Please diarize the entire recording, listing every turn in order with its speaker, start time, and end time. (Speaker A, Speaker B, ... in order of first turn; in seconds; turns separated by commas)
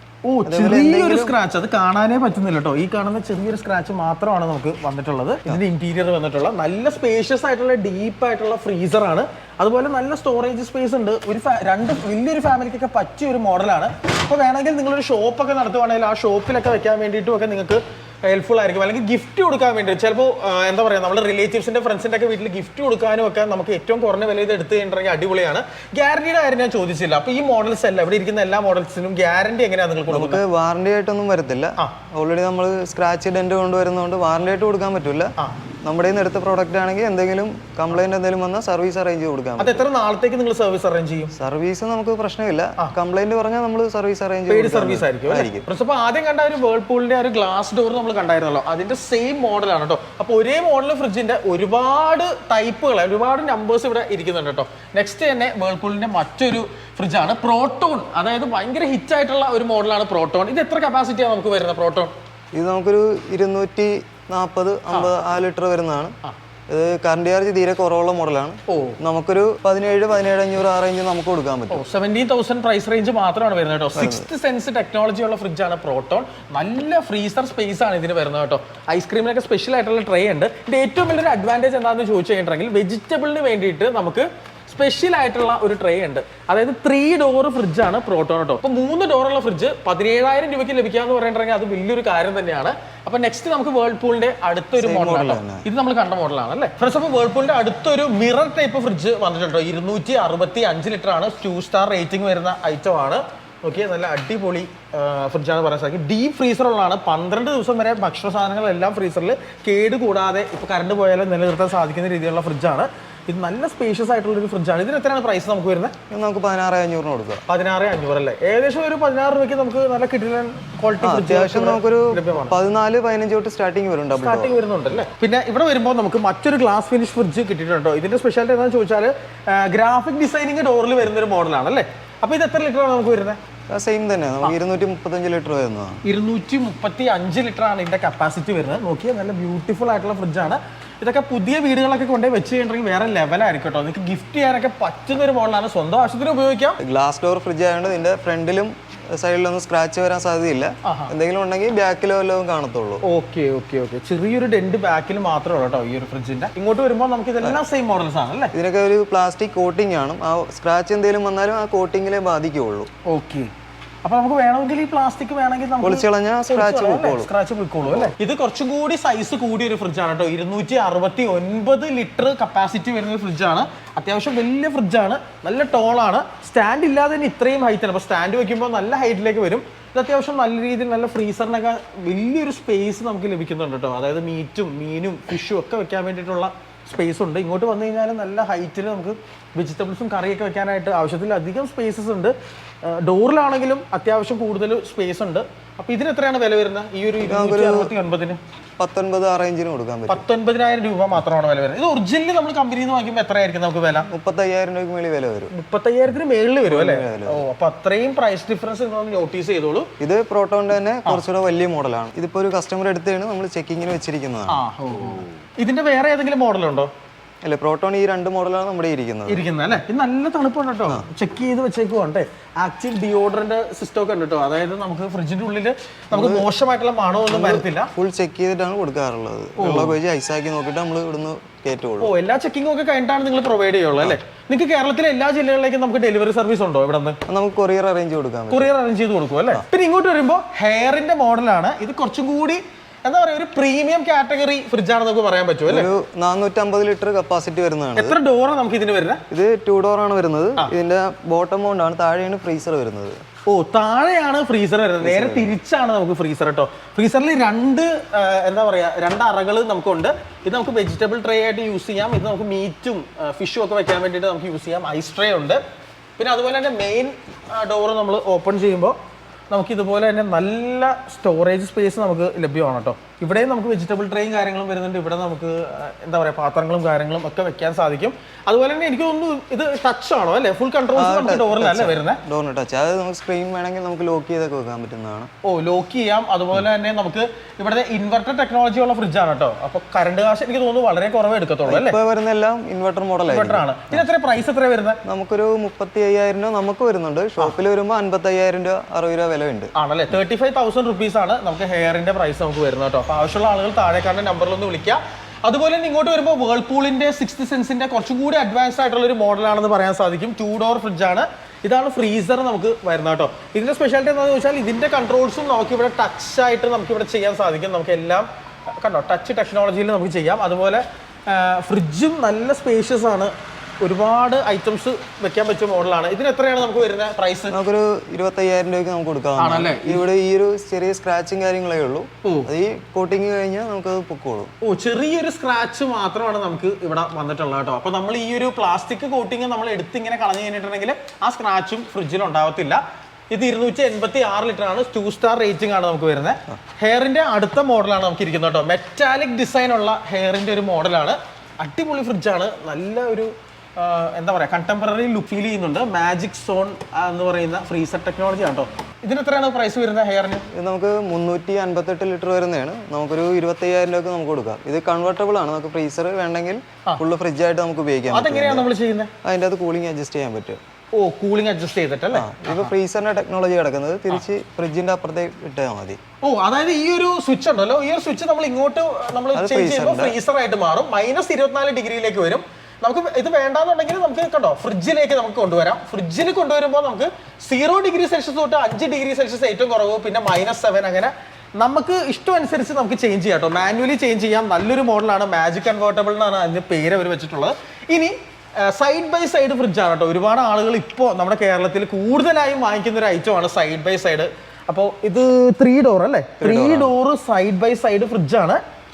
Speaker A: 0.2-30.4, Speaker B: 0.5-1.4, Speaker B: 30.1-35.3, Speaker B: 35.8-39.9, Speaker A: 39.6-41.3, Speaker B: 41.4-45.7, Speaker A: 44.5-62.1, Speaker B: 62.5-66.2, Speaker B: 66.7-71.8, Speaker A: 68.7-69.0, Speaker A: 71.7-115.9, Speaker B: 74.0-74.3, Speaker B: 94.8-95.7, Speaker B: 116.1-117.4, Speaker A: 117.5-122.5, Speaker B: 121.0-124.5, Speaker A: 124.2-133.4, Speaker B: 133.7-136.0, Speaker A: 136.0-146.8, Speaker B: 146.8-153.0, Speaker A: 150.8-151.1, Speaker A: 153.0-158.5, Speaker B: 158.5-162.9, Speaker A: 163.1-163.5, Speaker A: 164.0-198.4, Speaker B: 165.8-167.3, Speaker B: 197.3-197.9, Speaker B: 198.8-200.2, Speaker A: 200.1-204.1, Speaker B: 204.1-205.5, Speaker A: 205.5-209.9, Speaker B: 206.7-207.4, Speaker B: 210.0-214.6, Speaker A: 214.5-216.9, Speaker B: 217.4-219.4, Speaker A: 219.3-227.9, Speaker B: 226.1-226.5, Speaker B: 227.3-232.1, Speaker A: 229.6-230.0, Speaker A: 232.0-237.2, Speaker B: 237.3-238.7, Speaker A: 238.5-245.9, Speaker B: 245.7-248.2, Speaker A: 248.0-249.2, Speaker B: 249.3-253.2, Speaker A: 253.5-265.6, Speaker B: 255.0-255.6, Speaker A: 266.2-269.0, Speaker A: 269.5-282.2, Speaker B: 281.0-285.3, Speaker A: 285.4-292.0, Speaker B: 291.7-294.0, Speaker A: 293.3-295.0, Speaker B: 295.0-299.7, Speaker A: 299.8-318.3, Speaker A: 318.8-327.6, Speaker B: 327.5-334.5, Speaker A: 329.4-330.1, Speaker A: 332.2-332.5, Speaker A: 334.6-360.4, Speaker B: 360.5-368.7, Speaker A: 368.1-369.1, Speaker B: 369.2-370.6, Speaker A: 370.9-372.7, Speaker B: 372.1-376.0, Speaker A: 376.2-408.6, Speaker B: 379.4-380.2, Speaker B: 406.4-406.9